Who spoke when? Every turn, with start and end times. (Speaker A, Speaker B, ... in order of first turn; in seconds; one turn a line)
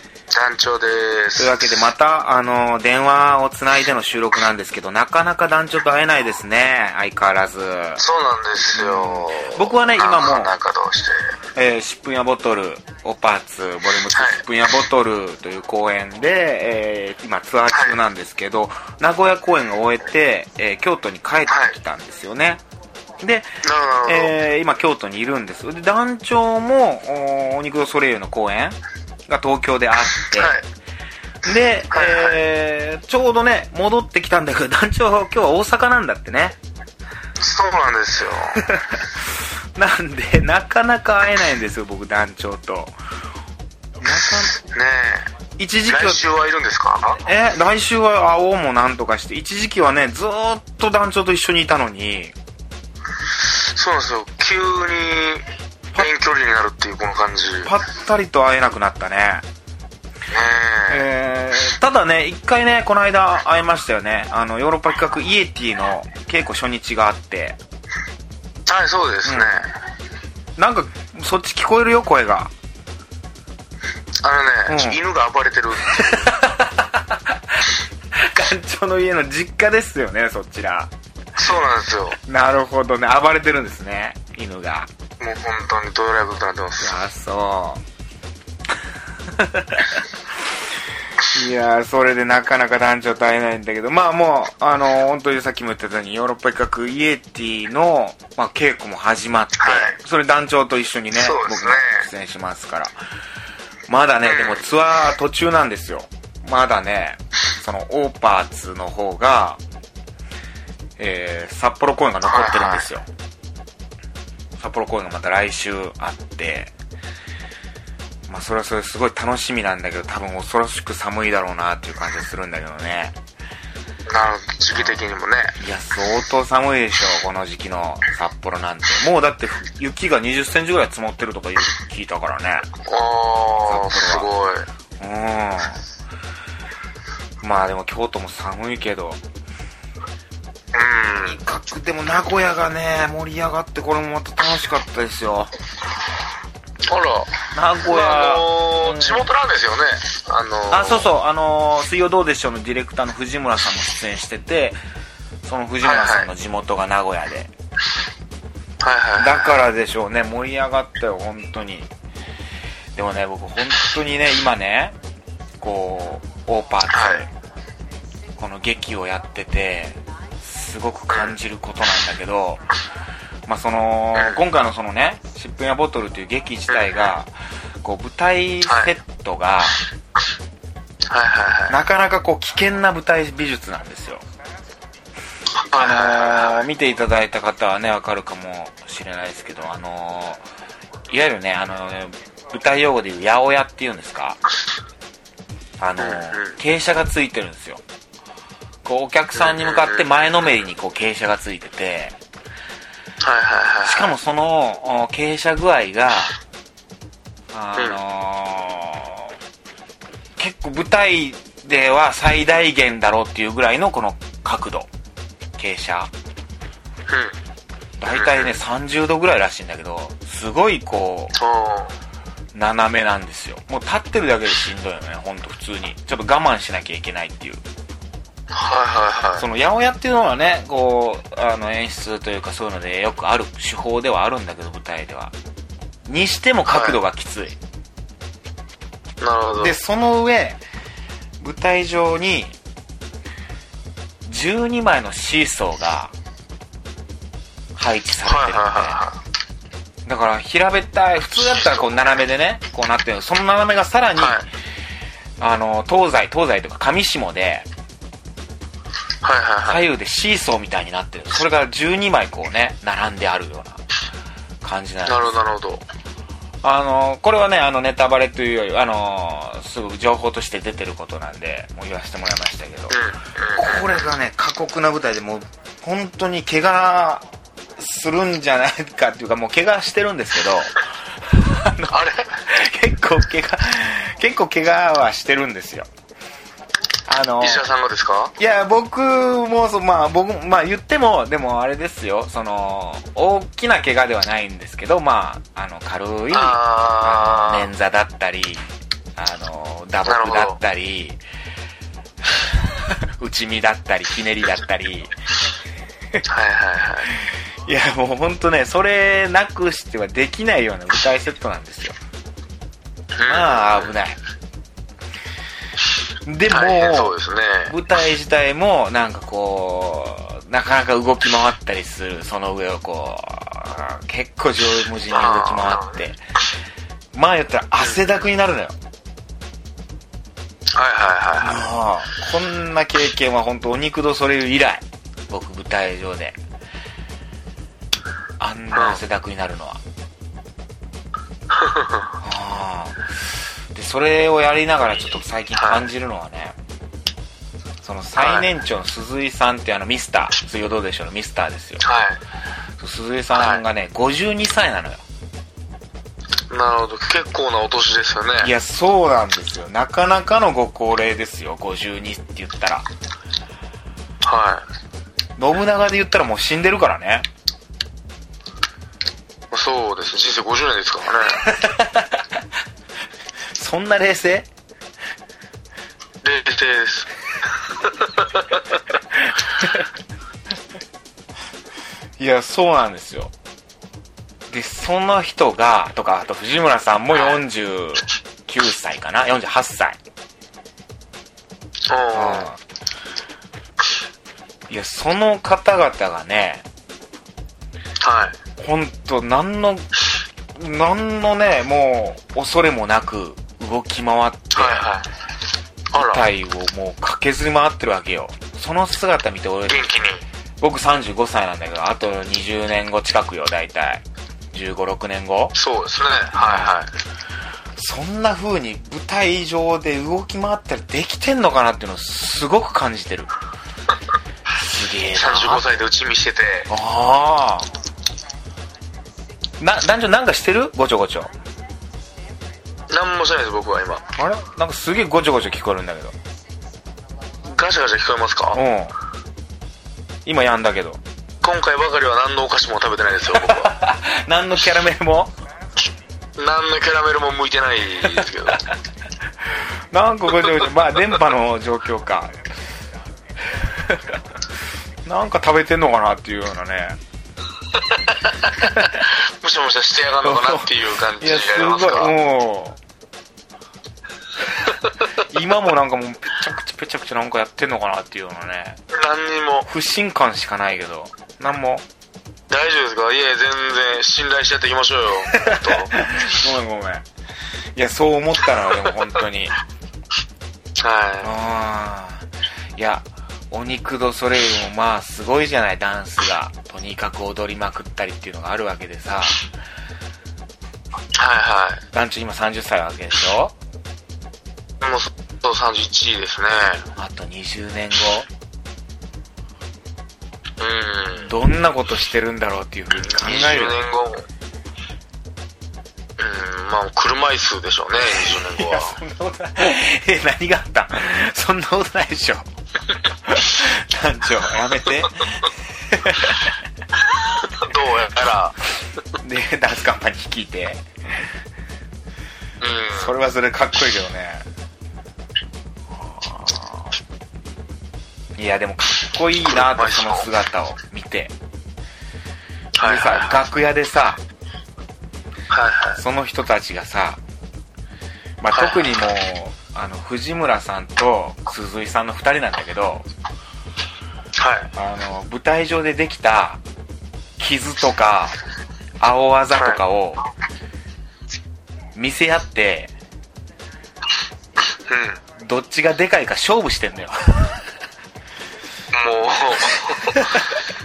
Speaker A: 0.3-1.7
Speaker B: 1.4-8.0
Speaker A: 8.0-11.3
Speaker B: 8.7-10.5
Speaker B: 11.5-22.6
Speaker A: 14.1-14.4
Speaker A: 17.7-17.9
Speaker A: 21.5-21.8
Speaker B: 23.2-30.5
Speaker A: 23.6-24.3
Speaker A: 30.3-30.6
Speaker B: 31.4-36.6
Speaker A: 31.9-32.4
Speaker A: 37.4-38.6
Speaker B: 38.5-39.0
Speaker B: 39.7-42.9
Speaker B: 44.0-44.6
Speaker A: 44.5-45.3
Speaker B: 45.6-46.2
Speaker A: 45.9-47.2
Speaker B: 47.2-52.3
Speaker A: 53.4-57.7
Speaker B: 57.6-59.4
Speaker A: 60.3-61.0
Speaker B: 60.9-67.6
Speaker A: 68.6-69.7
Speaker B: 69.2-69.6
Speaker B: 70.6-72.5
Speaker A: 74.2-76.3
Speaker B: 74.7-75.0
Speaker B: 75.9-77.2
Speaker B: 78.2-80.9
Speaker A: 81.3-82.2
Speaker B: 82.2-84.9
Speaker A: 85.2-87.0
Speaker B: 86.8-87.8
Speaker B: 89.3-90.0
Speaker B: 91.2-102.9
Speaker A: 99.6-100.0
Speaker A: 101.1-102.0
Speaker B: 103.9-109.6
Speaker A: 104.2-104.7
Speaker B: 111.0-113.0
Speaker A: 112.2-112.8
Speaker B: 114.6-116.7
Speaker B: 118.3-123.2
Speaker A: 124.1-125.5
Speaker B: 124.7-125.0
Speaker B: 125.6-132.7
Speaker A: 132.8-134.7
Speaker B: 133.6-134.3
Speaker B: 135.0-135.8
Speaker B: 137.4-139.2
Speaker A: 140.7-141.4
Speaker B: 141.2-145.5
Speaker A: 146.9-151.1
Speaker B: 147.5-149.3
Speaker B: 150.7-154.8
Speaker B: 155.4-157.5
Speaker A: 155.8-156.3
Speaker A: 158.8-159.6
Speaker B: 159.2-161.9
Speaker B: 162.9-165.0
Speaker B: 165.6-167.3
Speaker A: 166.9-167.2
Speaker B: 168.4-172.7
Speaker A: 171.1-171.3
Speaker B: 173.4-179.8
Speaker A: 174.1-174.4
Speaker A: 176.7-177.1
Speaker A: 178.7-178.9
Speaker A: 181.1-181.8
Speaker B: 181.7-184.2
Speaker A: 185.5-186.6
Speaker B: 185.7-190.4
Speaker B: 191.1-194.4
Speaker B: 195.8-197.8
Speaker A: 196.0-196.6
Speaker B: 198.8-202.2
Speaker A: 199.3-200.1
Speaker A: 203.2-204.1
Speaker B: 203.8-206.4
Speaker B: 207.5-209.3
Speaker B: 210.4-214.9
Speaker B: 215.6-216.1
Speaker A: 217.1-217.4
Speaker B: 218.0-221.3
Speaker A: 218.1-218.5
Speaker A: 221.3-221.9
Speaker B: 222.5-227.6
Speaker A: 228.5-229.4
Speaker B: 229.4-235.3
Speaker B: 236.1-237.6
Speaker A: 236.7-237.0
Speaker A: 239.2-239.8
Speaker B: 239.6-240.6
Speaker B: 241.4-242.6
Speaker B: 244.2-246.1
Speaker B: 247.7-249.0
Speaker A: 248.2-249.2
Speaker B: 250.1-254.5
Speaker A: 251.3-252.2
Speaker A: 254.2-254.5
Speaker B: 255.4-257.7
Speaker A: 259.2-259.8
Speaker B: 259.6-263.8
Speaker B: 264.6-265.4
Speaker A: 265.1-265.8
Speaker B: 266.6-273.0
Speaker A: 272.9-274.1
Speaker B: 273.5-277.2
Speaker B: 277.8-280.8
Speaker B: 281.3-285.9
Speaker A: 281.9-282.3
Speaker B: 287.1-287.7
Speaker A: 287.4-288.3
Speaker B: 288.4-301.2
Speaker A: 296.3-297.7
Speaker A: 300.1-300.6
Speaker B: 302.7-305.1
Speaker A: 306.3-307.1
Speaker B: 307.1-311.9
Speaker A: 313.1-313.9
Speaker B: 313.2-314.2
Speaker B: 316.2-317.1
Speaker A: 316.5-317.7
Speaker B: 317.7-326.2
Speaker A: 325.1-325.9
Speaker B: 327.1-328.8
Speaker A: 330.7-331.6
Speaker B: 331.4-336.4
Speaker B: 338.4-339.8
Speaker A: 338.7-339.0
Speaker A: 341.5-342.1
Speaker B: 342.2-343.1
Speaker B: 343.7-346.6
Speaker A: 345.6-345.9
Speaker B: 347.8-351.8
Speaker A: 348.2-348.5
Speaker A: 351.8-352.2
Speaker B: 352.8-355.0
Speaker A: 353.3-353.6
Speaker A: 356.5-358.5
Speaker B: 358.4-362.9
Speaker A: 364.2-364.6
Speaker B: 365.4-367.3
Speaker A: 369.5-371.4
Speaker B: 371.4-372.2
Speaker B: 373.5-374.5
Speaker A: 376.2-377.1
Speaker A: 377.7-378.7
Speaker B: 382.2-383.3
Speaker B: 384.5-390.0
Speaker A: 387.1-387.4
Speaker A: 391.9-392.5
Speaker B: 392.1-392.6
Speaker B: 394.7-396.6
Speaker A: 398.0-398.4
Speaker B: 398.6-399.9
Speaker B: 400.5-404.9
Speaker A: 404.5-405.1
Speaker A: 405.9-406.2
Speaker B: 405.9-409.9
Speaker A: 409.6-410.2
Speaker B: 410.6-415.5
Speaker A: 415.5-416.9
Speaker B: 416.3-416.8
Speaker B: 417.8-423.3
Speaker B: 424.6-425.6
Speaker A: 425.1-426.7
Speaker B: 426.7-427.7
Speaker B: 429.6-431.3
Speaker A: 432.9-434.0
Speaker B: 434.1-436.1
Speaker A: 437.4-438.6
Speaker B: 438.5-438.9
Speaker B: 440.2-441.0
Speaker A: 441.4-443.7
Speaker B: 443.3-445.3
Speaker A: 446.4-448.6
Speaker B: 449.9-452.3
Speaker B: 455.0-457.0
Speaker A: 457.8-462.1
Speaker B: 460.2-462.8
Speaker B: 465.2-468.8
Speaker A: 468.9-469.7
Speaker B: 469.7-471.8
Speaker A: 472.5-475.9
Speaker B: 475.3-477.0
Speaker B: 477.7-479.6
Speaker A: 480.8-481.3
Speaker B: 481.2-489.4
Speaker A: 491.1-491.8
Speaker B: 491.9-493.5
Speaker A: 494.8-496.8
Speaker B: 496.9-498.3
Speaker A: 500.6-501.3
Speaker B: 501.2-503.8
Speaker A: 503.0-504.2
Speaker A: 506.2-508.9
Speaker B: 508.3-512.5
Speaker B: 513.3-516.5
Speaker A: 517.2-518.5
Speaker B: 519.2-521.2
Speaker A: 522.6-523.1
Speaker B: 522.9-524.4
Speaker B: 525.9-526.9
Speaker B: 528.4-531.3
Speaker A: 529.5-530.3
Speaker A: 532.8-533.4
Speaker B: 532.8-534.2
Speaker A: 535.5-536.0
Speaker B: 536.0-537.2
Speaker B: 538.4-543.0
Speaker A: 538.5-538.9
Speaker A: 544.4-544.7
Speaker B: 544.7-546.6
Speaker B: 547.4-548.4
Speaker B: 549.0-550.2
Speaker B: 551.9-552.9
Speaker A: 554.9-555.2
Speaker B: 555.4-557.5
Speaker A: 558.9-560.2
Speaker B: 560.1-560.5